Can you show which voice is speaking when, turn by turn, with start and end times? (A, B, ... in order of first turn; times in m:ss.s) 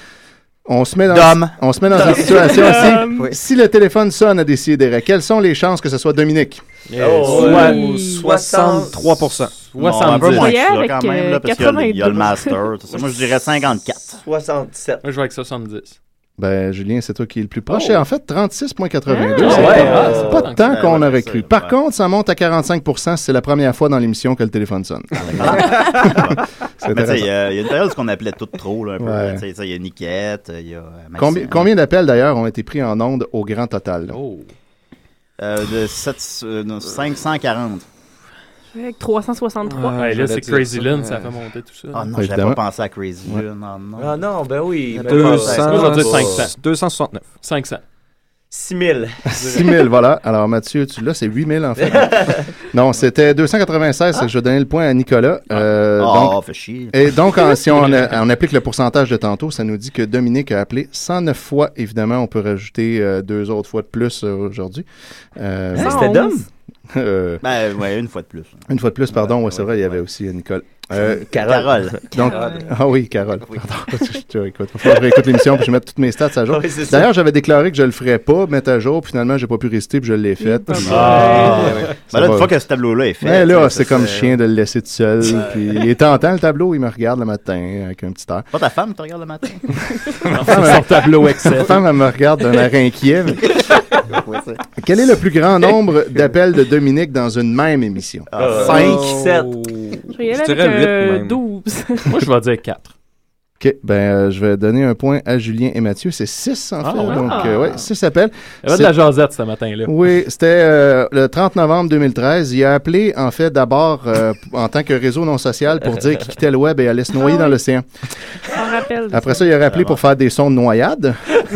0:00.6-0:06.6 A
0:01.1-0:01.6 B
0:01.9-0:02.3 C
0:02.0-0:03.3 D
0:06.9-0:08.0 E
0:07.0-0:09.0 C
0:07.3-0:08.2 D
0:07.5-0:09.6 F
0:09.6-0:10.6 E
0:09.7-0:14.2 B
0:10.2-0:12.6 D
0:14.2-0:15.0 C
0:15.0-0:16.0 E
0:16.4-0:27.3 A
0:19.1-0:19.8 D
0:19.4-0:20.8 E
0:19.4-0:20.4 C
0:19.8-0:21.7 B
0:25.2-0:31.7 B
0:29.0-0:29.4 A
0:31.2-0:34.2 A
0:34.1-0:34.5 E
0:35.4-0:37.8 B
0:38.7-0:40.0 D
0:39.6-0:41.4 F
0:39.9-0:42.1 E
0:41.9-0:44.2 B
0:42.2-0:42.6 A
0:44.0-0:46.5 C
0:44.9-0:46.2 B
0:45.0-0:47.4 F
0:45.7-0:46.6 E
0:47.4-0:47.8 E
0:48.5-0:49.2 C
0:49.3-0:56.4 A
0:51.8-0:52.5 C
0:56.0-0:56.9 B
0:56.9-1:06.1 A
1:05.7-1:06.4 C
1:05.8-1:06.4 D
1:06.9-1:07.4 A
1:07.4-1:10.0 B
1:08.7-1:11.3 A
1:11.1-1:12.0 B
1:11.3-1:12.1 C
1:12.1-1:12.7 D
1:12.1-1:22.5 A
1:16.5-1:17.1 C
1:20.4-1:21.8 D
1:20.8-1:24.3 B
1:20.8-1:21.8 E
1:23.2-1:28.5 A
1:25.2-1:25.8 B
1:28.5-1:29.8 B
1:30.2-1:33.6 A
1:30.3-1:31.8 E
1:34.1-1:34.6 B
1:34.8-1:38.3 A
1:38.3-1:39.1 B
1:38.3-1:39.5 C
1:38.5-1:41.4 F
1:40.1-1:42.2 D
1:42.1-1:42.9 E
1:43.6-1:48.9 A
1:46.8-1:47.3 E
1:47.0-1:47.6 D
1:48.6-1:49.9 E
1:49.8-1:57.8 A
1:57.2-1:57.6 D
1:58.5-1:59.5 D
1:59.1-2:01.3 A
1:59.7-2:00.0 B